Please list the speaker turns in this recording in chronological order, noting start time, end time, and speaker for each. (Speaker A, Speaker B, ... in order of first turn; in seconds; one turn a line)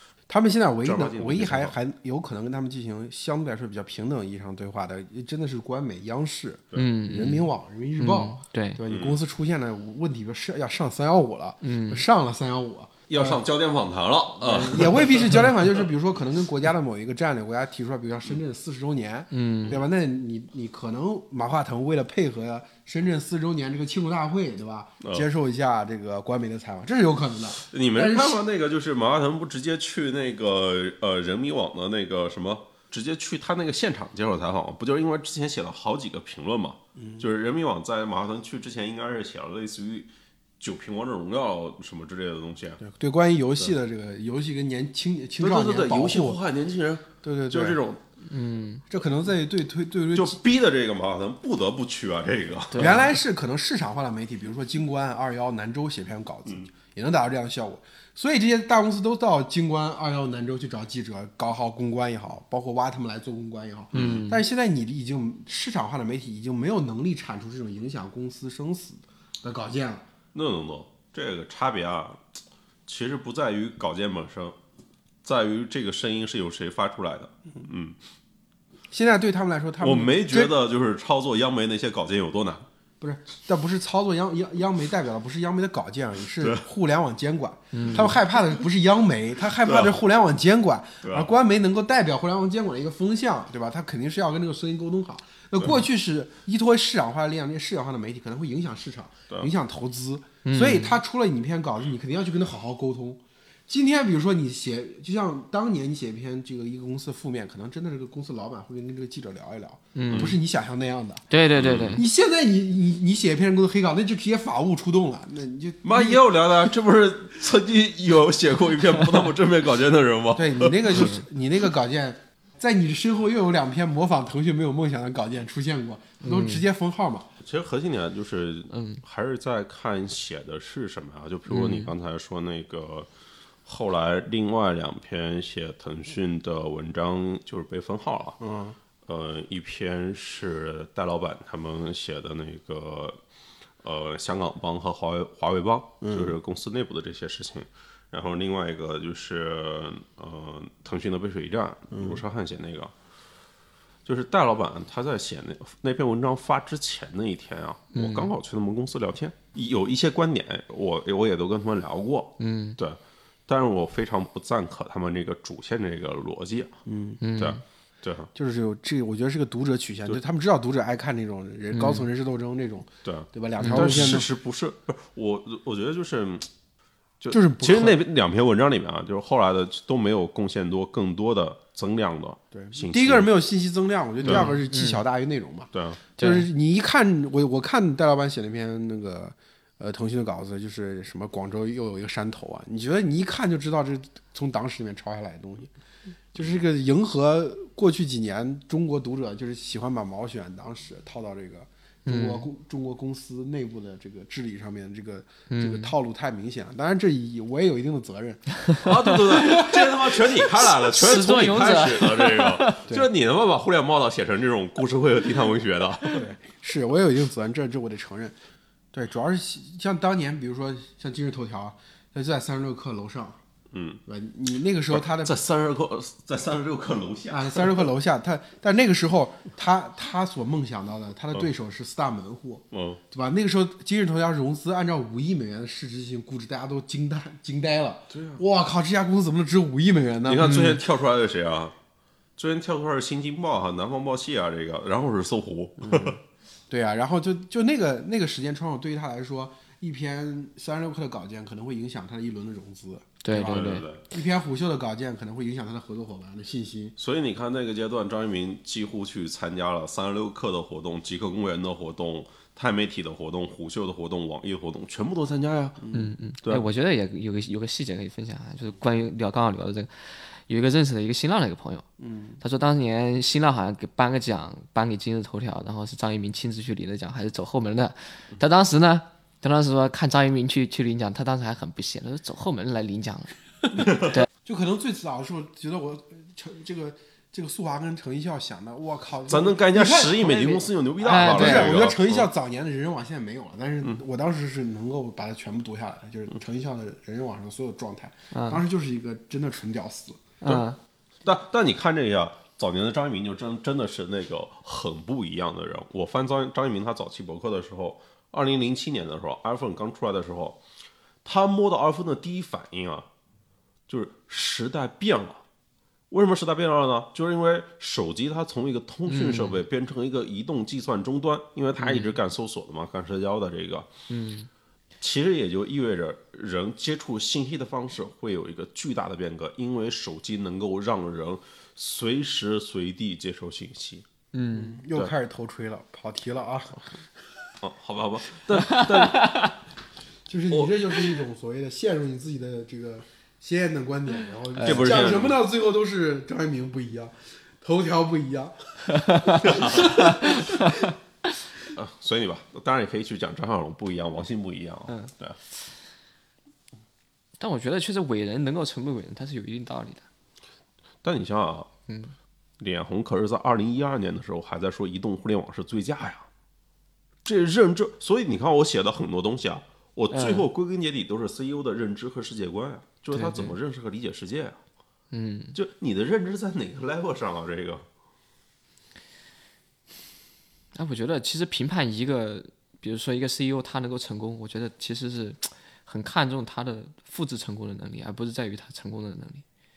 Speaker A: 0.3-13.4
Speaker B: 0.8-1.7
Speaker C: 6.8-8.8
Speaker B: 8.9-9.2
Speaker C: 11.6-12.1
Speaker B: 13.1-15.9
Speaker A: 14.4-28.4
Speaker C: 19.3-19.8
Speaker B: 25.0-25.3
Speaker B: 27.6-42.8
Speaker A: 37.0-37.3
Speaker A: 42.8-46.4
Speaker B: 45.4-48.0
Speaker A: 47.2-47.8
Speaker C: 48.2-48.8
Speaker A: 48.9-50.4
Speaker B: 50.1-53.0
Speaker C: 52.7-53.1
Speaker A: 52.8-70.1
Speaker B: 63.9-64.2
Speaker C: 63.9-64.4
Speaker B: 70.3-72.2
Speaker B: 72.9-74.6
Speaker B: 75.2-78.0
Speaker A: 78.9-80.5
Speaker B: 79.8-82.7
Speaker A: 83.0-111.2
Speaker C: 87.7-88.1
Speaker B: 87.8-88.2
Speaker B: 89.6-90.0
Speaker B: 91.0-91.3
Speaker C: 100.5-101.0
Speaker C: 110.0-110.3
Speaker B: 110.1-110.4
Speaker C: 111.3-112.0
Speaker B: 111.6-112.0
Speaker A: 111.9-116.7
Speaker B: 115.8-121.2
Speaker A: 120.3-127.3
Speaker C: 126.2-126.7
Speaker B: 127.4-133.1
Speaker C: 128.7-129.0
Speaker C: 131.5-131.9
Speaker B: 133.7-138.4
Speaker A: 138.4-138.8
Speaker B: 139.1-143.2
Speaker B: 143.8-152.9
Speaker A: 146.0-146.3
Speaker A: 151.9-152.2
Speaker B: 154.1-166.7
Speaker C: 157.9-158.3
Speaker C: 162.4-162.8
Speaker A: 166.9-167.2
Speaker C: 167.2-167.6
Speaker B: 167.4-168.3
Speaker A: 168.3-174.3
Speaker C: 171.7-172.1
Speaker B: 173.0-176.5
Speaker C: 173.6-174.0
Speaker B: 177.2-183.3
Speaker A: 177.3-178.0
Speaker A: 182.5-195.7
Speaker B: 184.2-184.5
Speaker C: 184.2-185.0
Speaker B: 185.7-186.0
Speaker C: 186.2-186.5
Speaker A: 196.3-208.6
Speaker C: 202.1-202.5
Speaker C: 205.5-205.9
Speaker C: 208.8-209.7
Speaker B: 208.8-216.2
Speaker C: 210.6-212.8
Speaker A: 216.1-218.4
Speaker A: 218.9-223.4
Speaker B: 223.7-224.0
Speaker A: 224.1-225.4
Speaker B: 224.9-227.9
Speaker A: 227.3-240.8
Speaker B: 232.7-233.0
Speaker B: 238.1-238.4
Speaker B: 240.3-241.8
Speaker B: 242.4-246.2
Speaker A: 245.8-257.0
Speaker C: 253.2-253.9
Speaker B: 253.3-254.1
Speaker B: 257.0-265.9
Speaker A: 265.8-266.1
Speaker C: 265.9-271.9
Speaker A: 272.0-272.4
Speaker C: 272.4-284.3
Speaker B: 283.8-284.1
Speaker A: 284.4-300.4
Speaker B: 289.3-292.3
Speaker C: 291.0-291.8
Speaker C: 298.3-298.6
Speaker C: 300.4-300.8
Speaker B: 301.2-310.6
Speaker B: 311.2-313.1
Speaker B: 313.9-315.4
Speaker B: 316.1-323.9
Speaker C: 319.1-319.6
Speaker C: 321.8-322.2
Speaker C: 324.1-324.5
Speaker B: 325.0-334.1
Speaker C: 334.3-334.8
Speaker A: 334.5-337.0
Speaker B: 337.6-339.5
Speaker C: 338.6-339.5
Speaker A: 340.3-350.6
Speaker B: 344.6-345.4
Speaker C: 348.9-350.9
Speaker B: 349.4-349.9
Speaker B: 351.7-355.4
Speaker C: 357.4-360.1
Speaker B: 361.0-361.7
Speaker C: 361.9-362.1
Speaker B: 362.6-366.3
Speaker B: 367.2-374.6
Speaker C: 370.1-370.5
Speaker C: 373.1-373.6
Speaker C: 375.1-375.6
Speaker B: 375.6-377.9
Speaker C: 380.8-389.4